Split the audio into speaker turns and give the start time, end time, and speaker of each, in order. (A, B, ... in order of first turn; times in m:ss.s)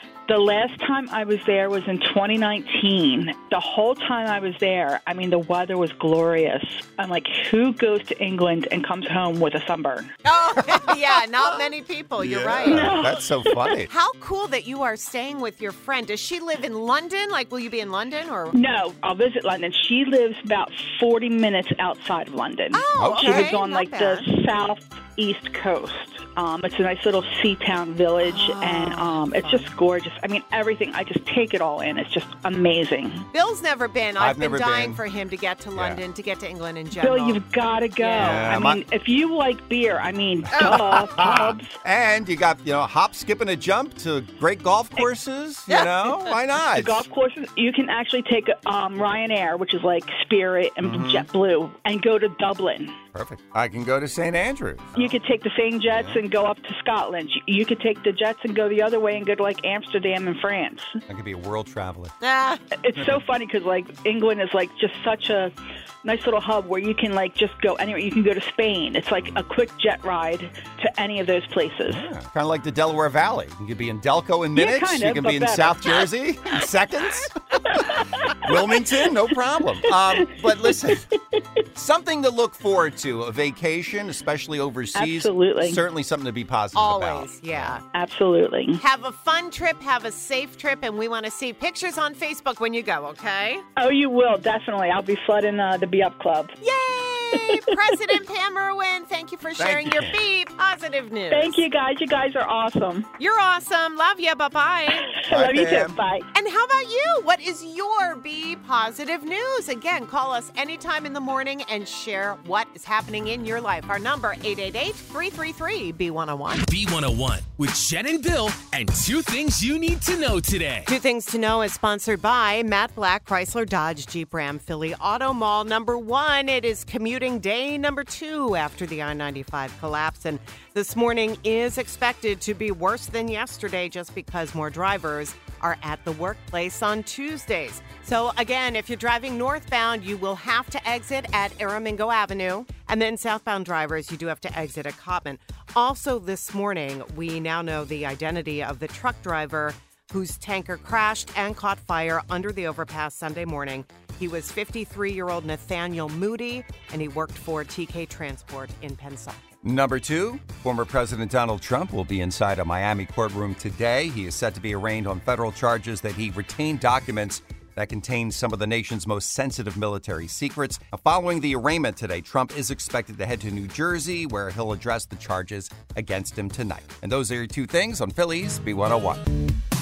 0:00.3-0:10.1 A
0:10.2-0:13.0 B
0:10.6-0:10.9 C
0:12.2-0:13.9 C
0:12.6-0:13.7 A
0:13.9-0:18.5 B
0:18.5-0:33.3 A
0:22.7-0:24.3 B
0:23.0-0:23.6 C
0:28.2-0:29.7 B
0:33.3-0:37.4 B
0:34.2-0:35.0 C
0:35.7-0:36.0 C
0:37.0-0:41.7 A
0:38.0-0:38.6 B
0:38.2-0:38.8 C
0:40.5-0:47.0 C
0:40.5-0:41.3 B
0:45.7-0:46.1 B
0:46.6-0:53.0 A
0:50.8-0:51.3 C
0:53.1-0:55.1 C
0:55.0-1:01.0 A
0:55.9-0:56.2 C
1:01.1-1:02.2 C
1:02.2-1:02.6 B
1:02.8-1:12.1 A
1:11.9-1:21.1 C
1:14.5-1:16.1 A
1:17.7-1:18.6 A
1:20.7-1:21.4 A
1:21.7-1:27.8 C
1:25.0-1:25.8 A
1:26.7-1:27.8 B
1:27.9-1:28.8 A
1:28.8-1:33.6 B
1:33.8-1:36.5 A
1:36.6-1:41.6 B
1:37.3-1:37.7 A
1:39.6-1:40.2 C
1:41.3-1:43.1 A
1:43.2-1:45.1 B
1:45.0-1:46.3 A
1:45.3-1:45.9 C
1:46.3-1:56.6 B
1:56.6-2:00.9 D
2:00.9-2:39.4 B
2:39.6-2:59.2 C